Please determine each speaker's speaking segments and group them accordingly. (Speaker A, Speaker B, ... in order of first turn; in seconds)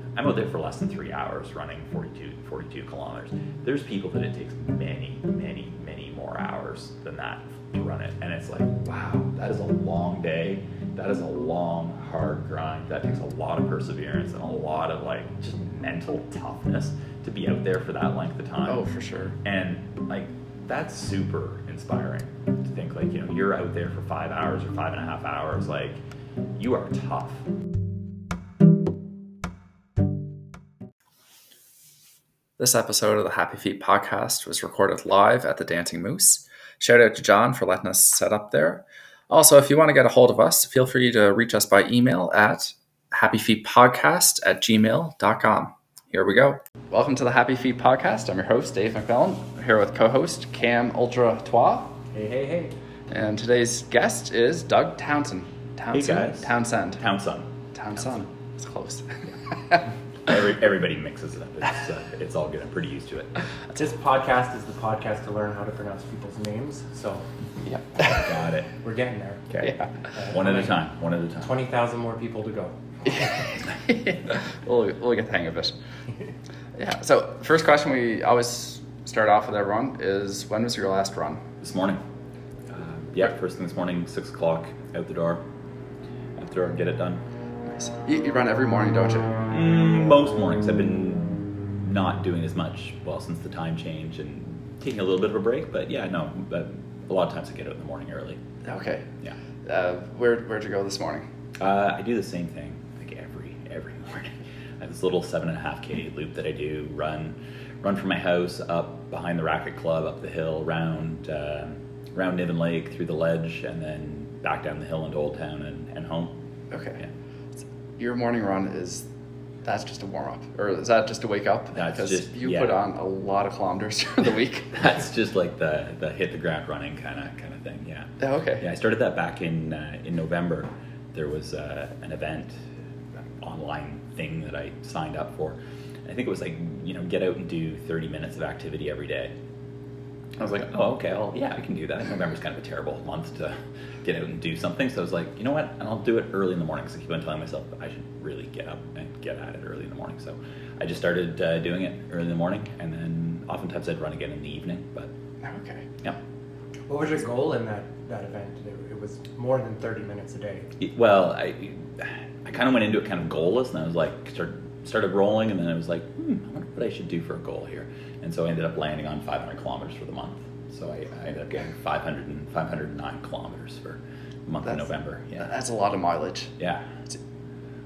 Speaker A: 0.2-18.8, 19.4-26.0, 26.6-27.5, 55.9-57.5, 60.3-63.5, 67.6-68.7, 69.5-71.5, 81.6-82.0, 82.7-85.4, 86.4-87.2, 89.5-98.4, 101.6-116.3, 121.7-122.8, 124.7-132.7, 133.4-139.3, 140.4-155.1, 160.8-175.5, 176.6-177.0
Speaker B: 18.6-19.4, 32.6-52.0, 53.1-57.0, 57.7-59.9, 73.1-75.8, 76.7-81.5, 87.6-89.4, 98.6-99.1, 99.6-101.3, 116.7-117.0, 118.0-119.1, 119.6-124.9, 128.2-128.7, 155.4-155.9, 174.6-176.6
Speaker C: 52.1-52.7, 63.8-67.3, 68.8-70.8, 71.4-73.3, 156.9-160.7